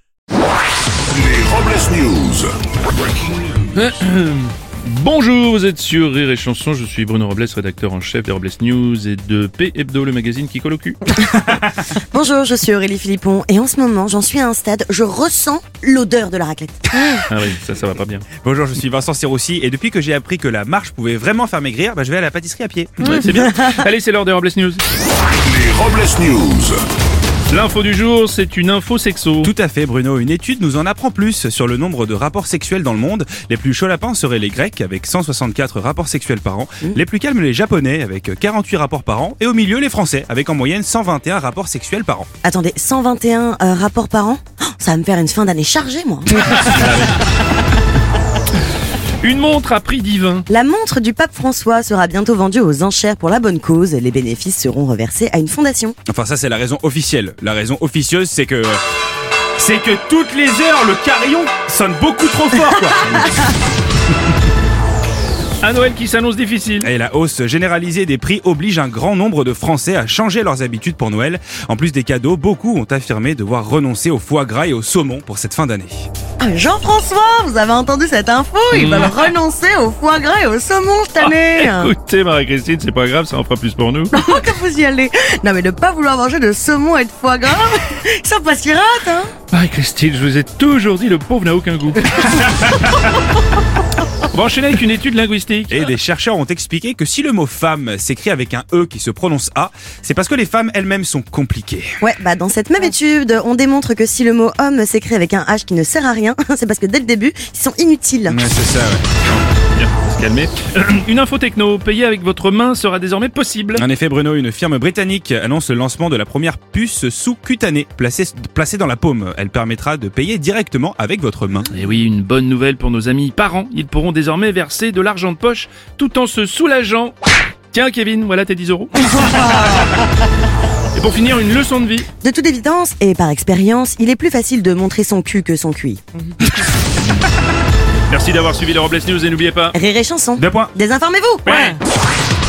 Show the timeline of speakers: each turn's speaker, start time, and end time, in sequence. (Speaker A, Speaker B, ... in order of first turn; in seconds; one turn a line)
Speaker A: 1.1-2.5
Speaker B: 3.7-11.1
Speaker C: 11.4-17.2
Speaker B: 17.3-18.3
Speaker D: 18.4-23.2
Speaker B: 23.0-24.8
Speaker A: 25.4-26.8
Speaker B: 27.5-29.5
Speaker D: 29.4-42.3
Speaker C: 42.4-46.8
Speaker B: 46.5-47.2
Speaker B: 49.2-50.5
Speaker C: 50.5-56.0
Speaker D: 56.1-58.8
Speaker D: 59.6-63.3
Speaker B: 65.6-66.9
Speaker D: 66.8-76.1
Speaker C: 76.4-81.9
Speaker B: 78.7-79.3
Speaker B: 81.2-84.2
Speaker C: 84.1-89.3
Speaker B: 89.5-92.8
Speaker B: 94.2-95.8
Speaker D: 95.7-102.0
Speaker C: 102.0-108.5
Speaker D: 108.3-109.5
Speaker B: 109.7-113.8
Speaker D: 113.8-121.7
Speaker B: 121.7-127.2
Speaker B: 127.7-129.9
Speaker B: 130.9-132.1
Speaker C: 132.2-136.0
Speaker B: 138.1-139.8
Speaker C: 139.7-141.8
Speaker D: 140.4-140.7
Speaker B: 141.5-141.8